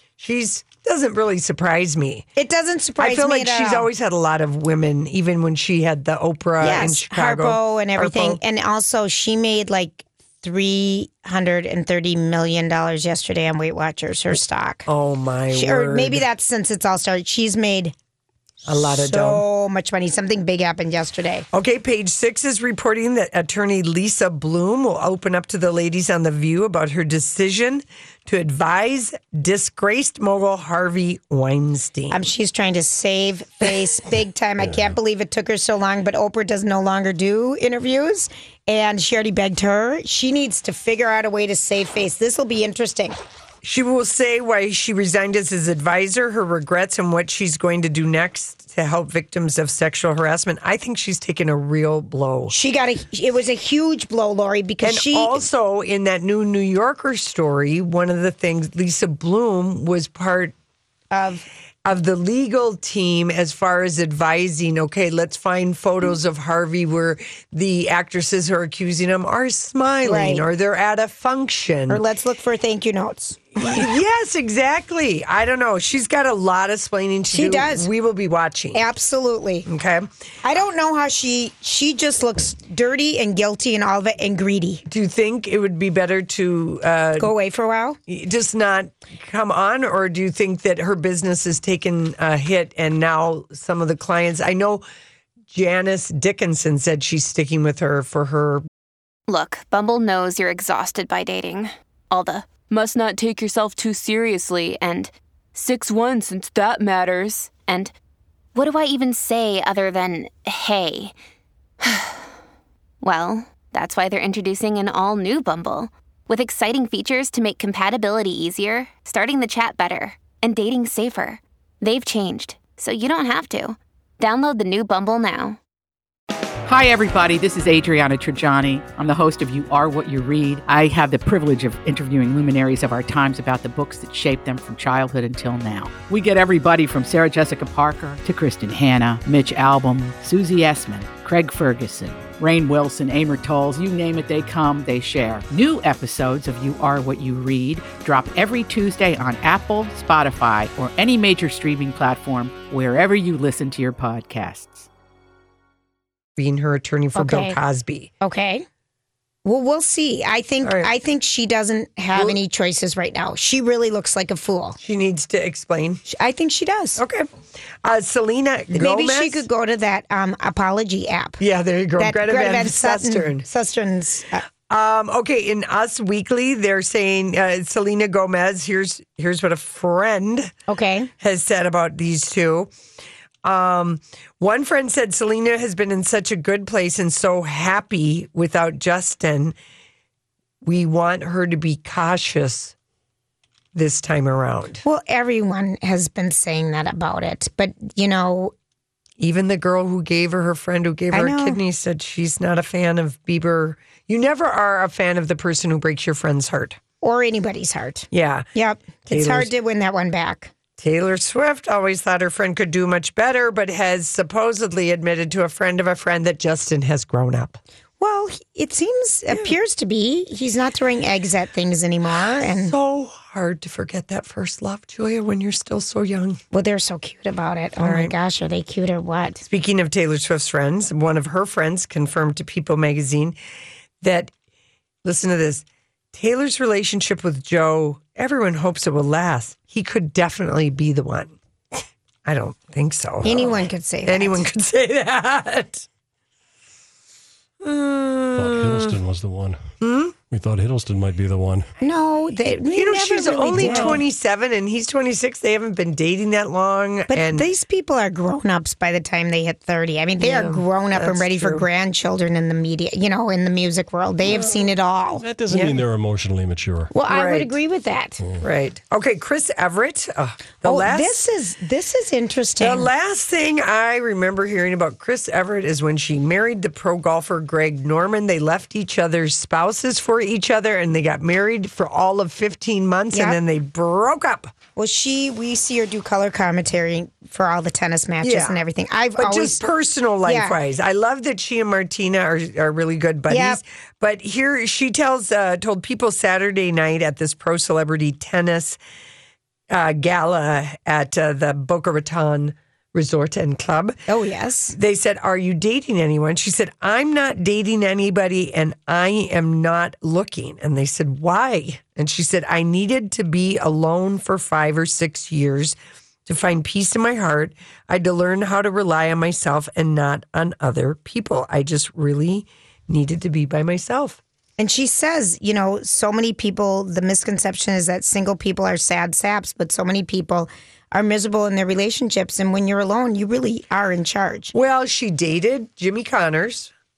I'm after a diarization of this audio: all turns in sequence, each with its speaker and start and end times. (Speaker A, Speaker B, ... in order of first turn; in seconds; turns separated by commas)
Speaker A: 0.2-2.3, Speaker B: 2.4-3.9, Speaker A: 3.0-8.4, Speaker B: 6.6-14.9, Speaker A: 14.9-16.2, Speaker B: 15.5-17.9, Speaker A: 18.6-19.4, Speaker B: 18.8-21.5, Speaker A: 21.5-32.2, Speaker B: 32.1-43.2, Speaker A: 43.6-52.5, Speaker B: 52.5-55.5, Speaker A: 54.8-60.5, Speaker B: 61.1-61.5, Speaker A: 61.9-72.0, Speaker B: 70.0-70.5, Speaker B: 71.9-73.9, Speaker A: 73.6-78.8, Speaker B: 77.3-77.9, Speaker B: 78.7-79.7, Speaker A: 79.7-80.1, Speaker B: 80.4-84.8, Speaker A: 84.9-87.3, Speaker B: 87.2-88.0, Speaker A: 88.1-94.8, Speaker A: 95.5-98.6, Speaker C: 99.3-107.9, Speaker C: 108.5-111.1, Speaker C: 111.8-112.2, Speaker C: 113.0-125.6, Speaker D: 126.7-154.9, Speaker A: 156.4-158.1, Speaker B: 157.1-157.6, Speaker B: 158.2-158.7, Speaker B: 159.4-164.8, Speaker A: 160.6-160.9, Speaker A: 162.1-162.4, Speaker A: 164.8-166.0, Speaker B: 166.1-167.0, Speaker A: 167.0-167.3, Speaker A: 167.8-169.5, Speaker B: 168.7-171.4, Speaker A: 171.4-173.5, Speaker B: 172.0-174.5, Speaker A: 174.7-180.5, Speaker B: 180.7-181.1, Speaker A: 181.2-182.7, Speaker A: 183.4-189.6, Speaker A: 190.6-192.7, Speaker A: 193.7-194.8, Speaker B: 194.8-198.5, Speaker A: 199.2-206.8, Speaker B: 201.1-201.6, Speaker B: 207.0-210.5, Speaker A: 208.1-208.5, Speaker A: 209.1-209.5, Speaker A: 210.8-217.6, Speaker B: 218.0-222.7, Speaker A: 219.3-219.6, Speaker A: 222.4-226.4, Speaker B: 226.5-229.4, Speaker A: 227.8-228.1, Speaker A: 229.4-233.4, Speaker A: 234.0-234.3, Speaker A: 235.0-241.3, Speaker A: 242.3-245.8, Speaker B: 243.2-244.5, Speaker A: 247.6-248.9, Speaker E: 248.3-249.6, Speaker A: 249.8-250.1, Speaker E: 250.3-251.7, Speaker B: 251.8-254.0, Speaker A: 252.7-257.5, Speaker B: 257.1-265.2, Speaker A: 260.2-261.6, Speaker A: 264.3-264.6, Speaker E: 265.2-266.9, Speaker A: 265.5-265.8, Speaker B: 266.9-268.2, Speaker A: 267.1-267.5, Speaker A: 268.4-271.3, Speaker B: 270.6-272.9, Speaker A: 272.6-284.5, Speaker B: 283.1-283.4, Speaker B: 284.8-289.6, Speaker A: 288.2-288.6, Speaker A: 289.2-298.8, Speaker B: 290.2-290.6, Speaker B: 293.3-293.6, Speaker A: 299.7-303.9, Speaker B: 304.1-304.8, Speaker A: 304.8-324.2, Speaker B: 324.6-334.5, Speaker A: 334.5-336.7